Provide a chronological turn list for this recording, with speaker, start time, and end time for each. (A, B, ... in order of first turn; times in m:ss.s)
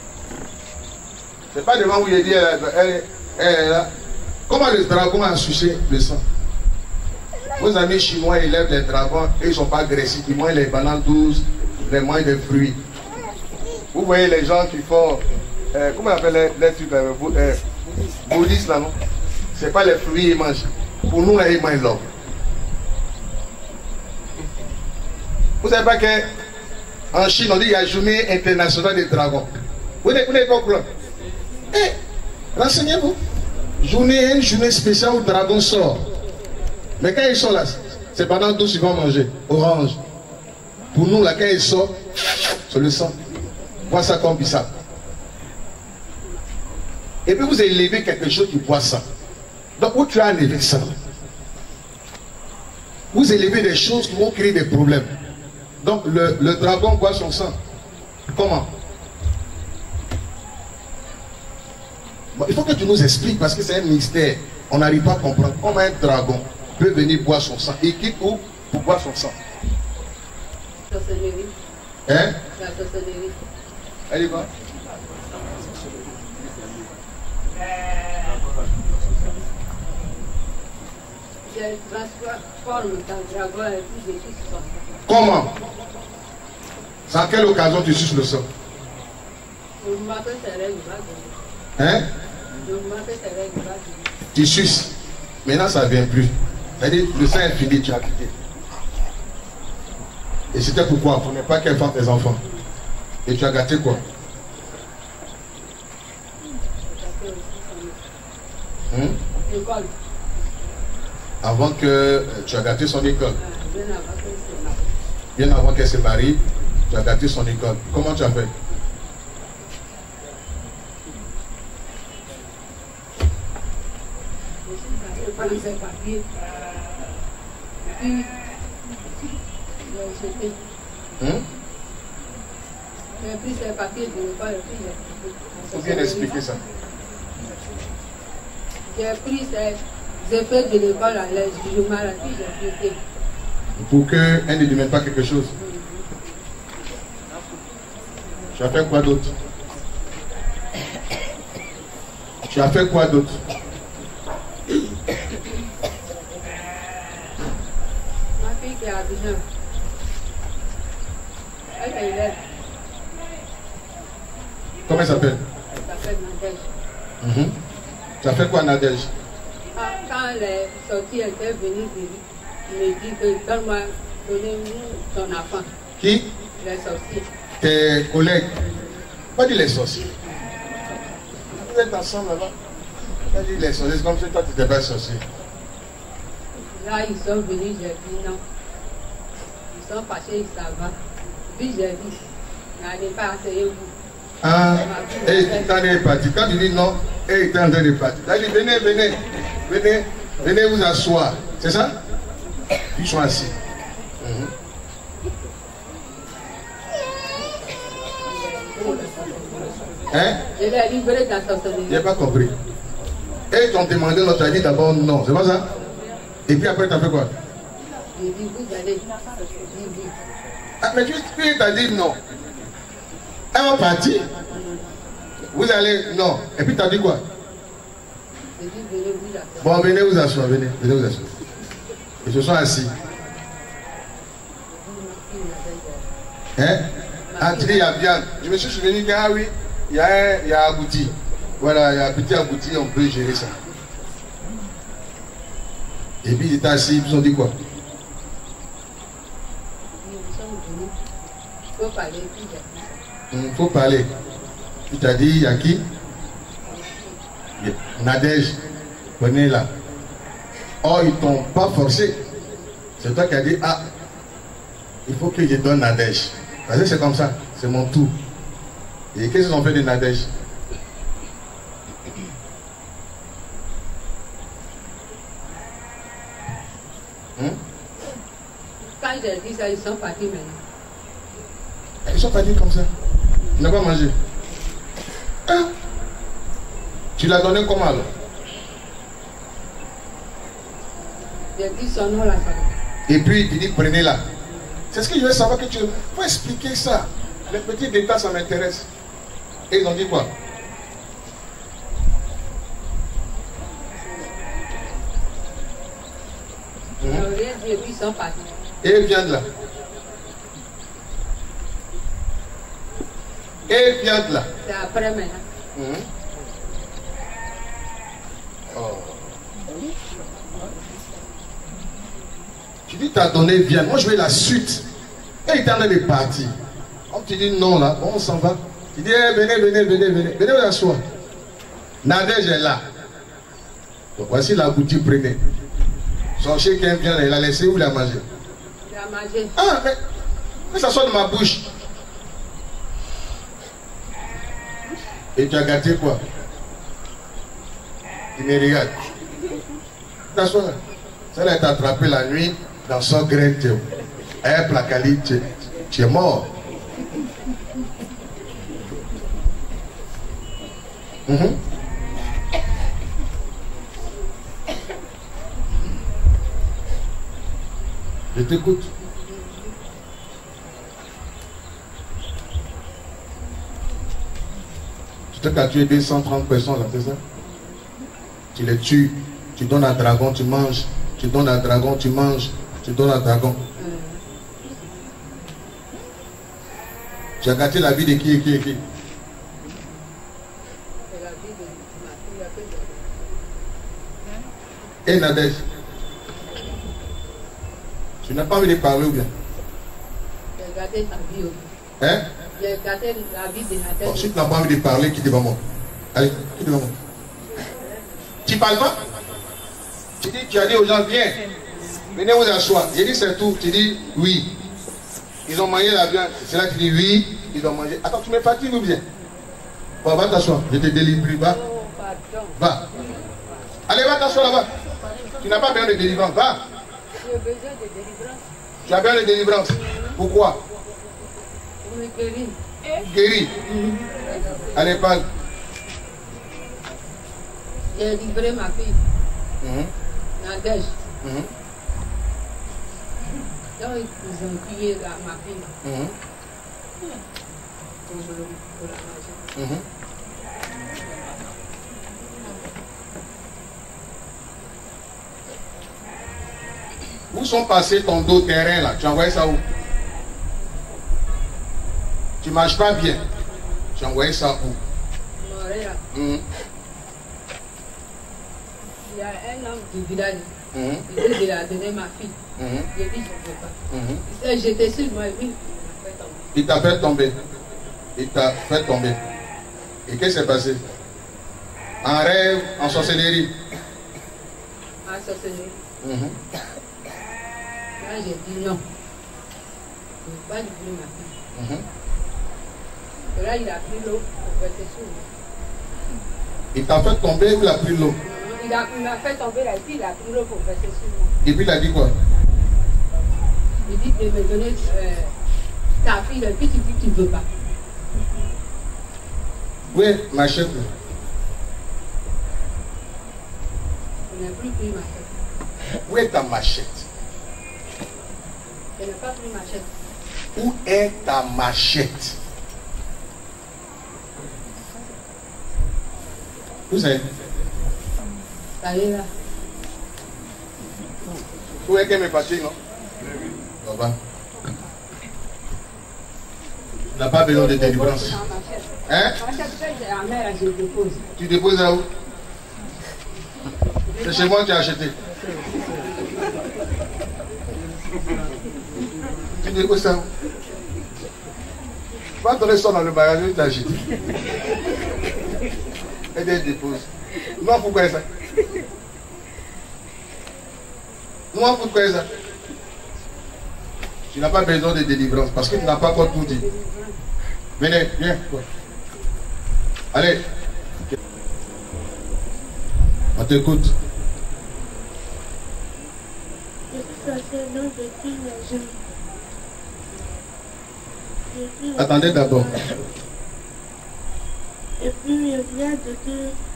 0:01.5-0:03.9 A
0:04.5-0:06.2 A
0:07.6-0:12.8 A
0:13.9-0:17.6 A
0:18.2-0:19.0 A
0:19.6-0:22.0 A
0:25.6-0:26.3 A
0:27.1-0:29.5 A
0:30.0-0:30.9 A
0:32.6-0:33.2 A
0:33.8-0:36.0 A
0:37.0-0:40.0 A
0:40.9-0:42.0 A
0:42.7-0:43.2 A
0:43.9-0:44.7 A
0:47.3-0:49.0 A
0:49.8-0:51.0 A
0:53.1-0:55.1 A
0:55.8-0:57.6 A
0:58.3-0:58.7 A
1:02.4-1:09.4 A
1:10.9-1:11.5 B
1:12.1-1:12.4 A
1:12.6-1:13.4 B
1:14.1-1:14.5 A
1:21.5-1:24.8 B
1:25.1-1:25.5 A
1:27.1-1:28.5 A
1:29.8-1:31.3 B
1:31.8-1:32.1 A
1:32.6-1:34.1 B
1:34.3-1:34.9 A
1:35.4-1:38.3 A
1:40.5-1:42.4 A
1:43.3-1:44.0 A
1:46.8-1:48.0 B
1:48.9-1:49.2 A
1:49.5-1:49.9 B
1:51.4-1:53.4 A
1:53.4-1:54.8 B
1:55.4-1:58.5 A
2:04.7-2:06.2 B
2:08.0-2:08.3 B
2:09.9-2:10.6 B
2:11.2-2:11.4 A
2:13.2-2:16.4 B
2:15.7-2:16.6 A
2:18.9-2:23.0 B
2:23.8-2:25.5 A
2:25.6-2:25.9 B
2:28.5-2:29.3 A
2:32.5-2:33.4 A
2:38.4-2:39.4 B
2:41.8-2:42.4 B
2:44.9-2:45.4 A
2:45.7-2:46.7 B
2:47.2-2:47.5 A
2:48.2-2:49.1 A
2:49.7-2:55.7 B
2:56.0-2:56.3 A
2:56.6-2:57.3 B
2:57.6-2:58.5 A
2:59.4-3:00.1 A
3:01.5-3:02.5 A
3:03.3-3:05.2 A
3:06.7-3:08.4 B
3:09.7-3:11.0 B
3:11.5-3:12.2 B
3:12.8-3:13.9 B
3:14.4-3:22.0 A
3:14.8-3:15.7 B
3:22.9-3:23.5 A
3:24.2-3:24.5 A
3:28.2-3:30.0 B
3:30.1-3:30.4 A
3:30.6-3:32.0 B
3:31.9-3:32.5 A
3:33.5-3:35.7 A
3:36.5-3:37.3 A
3:38.2-3:40.2 B
3:40.8-3:42.2 A
3:43.5-3:44.2 A
3:45.5-3:47.2 A
3:48.6-3:49.9 B
3:49.6-3:51.3 A
3:52.2-3:52.9 A
3:54.7-3:56.1 B
3:56.6-3:56.8 A
3:57.3-3:57.9 B
3:57.4-4:03.6 A
4:06.2-4:07.5 A
4:10.0-4:10.9 B
4:11.8-4:12.9 B
4:13.3-4:14.1 A
4:14.9-4:15.8 A
4:16.7-4:17.2 B
4:17.6-4:18.6 A
4:19.2-4:19.7 A
4:20.8-4:22.2 A
4:23.0-4:23.9 A
4:25.1-4:28.1 A
4:29.1-4:30.3 A
4:38.8-4:40.6 B
4:42.0-4:42.9 A
4:43.6-4:44.2 A
4:45.5-4:45.7 A
4:47.2-4:48.1 A
4:51.6-4:52.7 B
4:53.1-4:54.2 A
4:54.9-4:58.9 A
4:59.7-5:00.3 A
5:07.0-5:07.3 A
5:07.0-5:08.5 B
5:08.8-5:09.4 A
5:13.7-5:14.5 A
5:14.6-5:15.4 B
5:15.8-5:16.1 A
5:18.7-5:19.3 A
5:22.9-5:24.8 A
5:25.5-5:26.5 A
5:27.1-5:31.0 A
5:32.0-5:32.8 A
5:34.2-5:35.4 A
5:36.4-5:38.2 A
5:38.8-5:39.5 B
5:39.6-5:40.0 A
5:40.7-5:41.7 A
5:45.4-5:46.2 A
5:48.4-5:49.1 A
5:50.3-5:50.8 A
5:51.3-5:53.8 A
5:54.4-5:56.5 A
6:01.3-6:01.6 A
6:08.3-6:08.9 A
6:15.3-6:17.2 A
6:18.5-6:23.6 A
6:23.8-6:24.2 B
6:27.4-6:28.8 A
6:31.1-6:33.1 B
6:35.0-6:35.6 A
6:38.2-6:39.3 A
6:40.6-6:41.6 B
6:42.6-6:44.3 B
6:44.0-6:45.6 A
6:46.1-6:47.0 A
6:48.4-6:49.0 A
6:50.2-6:51.4 A
6:52.1-6:54.5 A
6:55.5-6:59.0 A
7:00.0-7:01.6 A
7:01.4-7:02.6 B
7:02.6-7:02.8 A
7:03.9-7:04.7 A
7:05.4-7:06.6 A
7:07.2-7:08.4 B
7:08.8-7:10.6 A
7:11.8-7:12.6 B
7:13.0-7:13.5 A
7:13.7-7:14.7 B
7:14.8-7:15.3 A
7:17.9-7:19.0 B
7:19.6-7:19.9 A
7:20.4-7:21.0 B
7:21.2-7:21.5 A
7:23.8-7:25.7 B
7:25.8-7:26.1 A
7:28.1-7:29.4 B
7:29.6-7:29.8 A
7:37.3-7:39.6 A
7:42.4-7:43.2 A
7:44.0-7:44.8 A
7:45.4-7:46.0 B
7:46.1-7:46.4 A
7:49.0-7:50.5 B
7:50.7-7:51.0 A
7:51.1-7:52.4 B
7:52.6-7:52.9 A
7:52.9-7:53.8 B
7:53.9-7:54.2 A
7:54.3-7:56.5 B
7:56.5-7:57.4 A
7:58.2-7:59.2 A
8:00.1-8:00.8 A
8:02.0-8:03.5 A
8:05.0-8:05.8 B
8:06.0-8:06.4 A
8:08.0-8:08.8 B
8:10.2-8:11.3 B
8:11.6-8:11.8 A
8:13.3-8:15.3 B
8:16.7-8:18.2 A
8:18.3-8:21.3 B
8:21.4-8:22.1 A
8:23.9-8:25.3 B
8:26.0-8:27.4 B
8:29.9-8:30.9 A
8:34.3-8:35.3 B
8:36.1-8:37.1 A
8:39.0-8:39.9 B
8:40.6-8:42.4 A
8:46.9-8:47.2 A
8:48.8-8:49.3 B
8:51.8-8:52.8 A
8:53.8-8:54.2 A
8:57.1-8:58.4 A
8:57.5-9:01.2 B
8:59.1-8:59.4 A
9:01.4-9:02.1 A
9:04.2-9:05.2 A
9:09.6-9:10.3 A
9:12.4-9:14.0 A
9:16.3-9:18.3 A
9:21.5-9:22.3 A
9:24.3-9:26.6 A
9:25.6-9:27.2 B
9:27.8-9:28.7 A
9:30.1-9:30.4 A
9:33.4-9:33.9 A
9:36.9-9:38.9 C
9:41.5-9:42.9 C
9:42.0-9:42.8 A
9:45.0-9:46.5 C